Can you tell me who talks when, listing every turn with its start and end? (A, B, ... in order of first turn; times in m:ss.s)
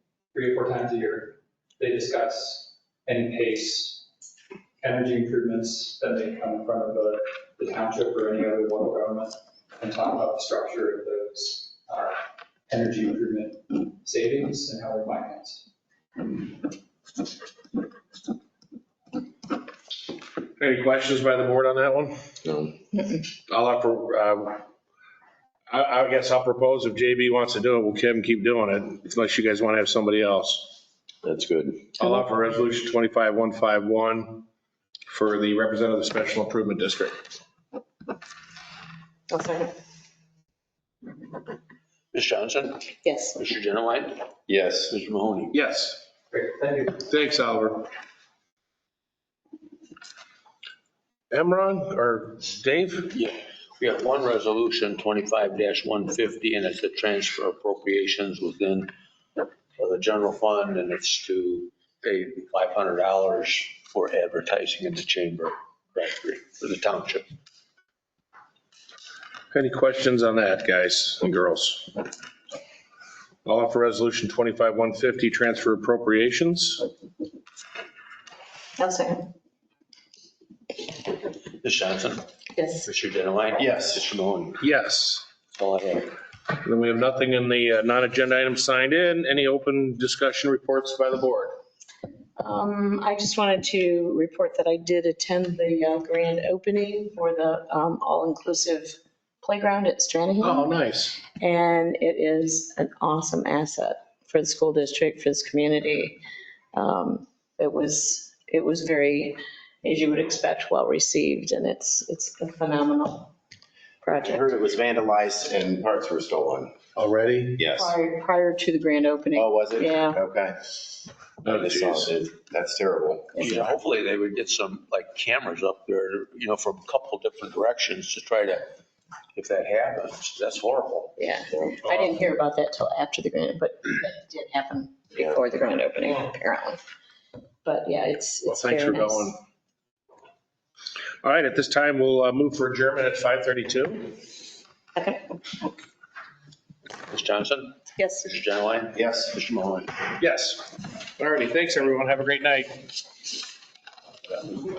0:00.3-0:04.0 A
0:04.8-0:15.6 A
0:20.6-0:22.2 B
0:22.4-0:22.7 C
0:23.5-0:24.6 B
0:25.7-0:30.8 B
0:31.2-0:31.9 C
0:32.0-0:34.4 B
0:35.1-0:37.2 B
0:39.3-0:39.7 D
0:42.1-0:44.3 E
0:43.0-0:43.4 D
0:44.5-0:45.0 C
0:44.9-0:45.5 E
0:45.5-0:46.0 B
0:46.3-0:47.0 A
0:47.0-0:47.9 B
0:51.3-0:53.1 B
0:53.1-0:58.9 E
0:59.8-1:07.3 E
1:09.5-1:12.0 B
1:13.4-1:16.8 B
1:18.8-1:19.3 D
1:21.6-1:22.3 E
1:22.6-1:22.9 D
1:22.8-1:24.6 E
1:23.6-1:24.0 C
1:24.6-1:25.3 B
1:25.5-1:26.1 E
1:26.6-1:31.6 B
1:32.4-1:40.7 D
1:40.4-1:41.2 B
1:41.4-1:46.2 D
1:46.7-1:53.3 D
1:54.0-1:54.5 D
1:54.2-1:56.7 C
1:57.0-1:57.6 B
1:57.6-1:58.0 C
1:57.7-2:00.2 D
1:59.3-2:00.8 C
2:01.4-2:03.6 C
2:01.4-2:02.1 B
2:03.4-2:03.7 D
2:03.4-2:08.7 E
2:09.4-2:11.2 E
2:11.2-2:16.8 D
2:17.6-2:19.4 D
2:18.5-2:19.3 B
2:21.2-2:24.2 B
2:25.0-2:25.8 D
2:27.1-2:29.9 E
2:28.0-2:28.2 D
2:28.9-2:29.4 C
2:30.2-2:32.9 B